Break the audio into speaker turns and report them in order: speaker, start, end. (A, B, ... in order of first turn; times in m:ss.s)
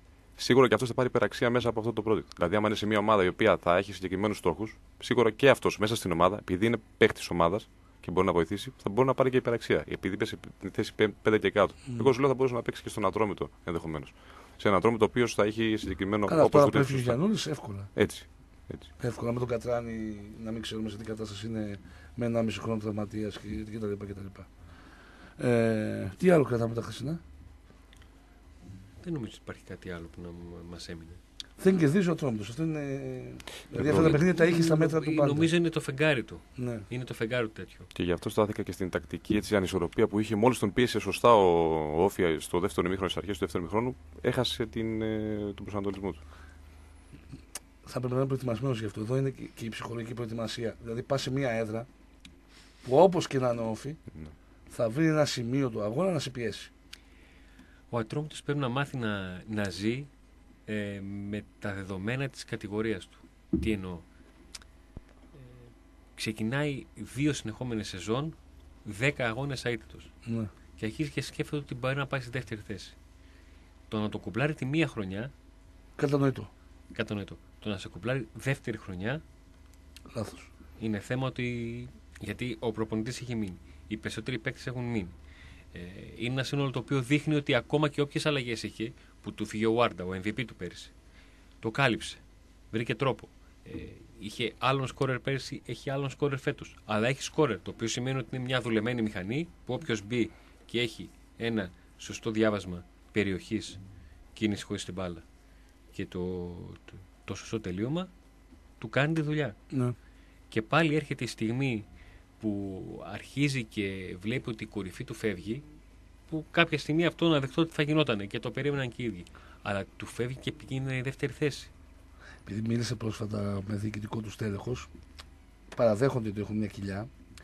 0:00.4-0:17.2 A
0:16.3-0:17.9 B
0:17.9-0:18.9 A
0:19.0-0:24.5 B
0:25.4-0:27.2 B
0:29.0-0:31.2 C
0:31.6-0:35.5 B
0:33.7-0:34.2 A
0:33.8-0:37.9 C
0:36.6-0:36.8 B
0:37.9-0:46.2 A
0:47.8-0:51.9 B
0:52.8-0:54.0 B
0:54.7-0:56.7 B
0:57.9-1:00.1 C
1:00.6-1:04.0 C
1:05.3-1:05.6 C
1:06.1-1:10.1 C
1:10.8-1:12.9 C
1:13.9-1:15.3 C
1:16.0-1:16.5 B
1:16.9-1:19.2 C
1:20.1-1:20.5 B
1:20.8-1:25.1 C
1:25.7-1:30.9 C
1:31.6-1:43.8 C
1:44.3-1:45.2 C
1:45.9-1:48.1 C
1:48.8-1:49.6 C
1:50.5-1:51.8 C
1:52.4-1:55.6 C
1:56.3-2:01.7 C
2:02.4-2:04.9 B
2:05.7-2:07.1 B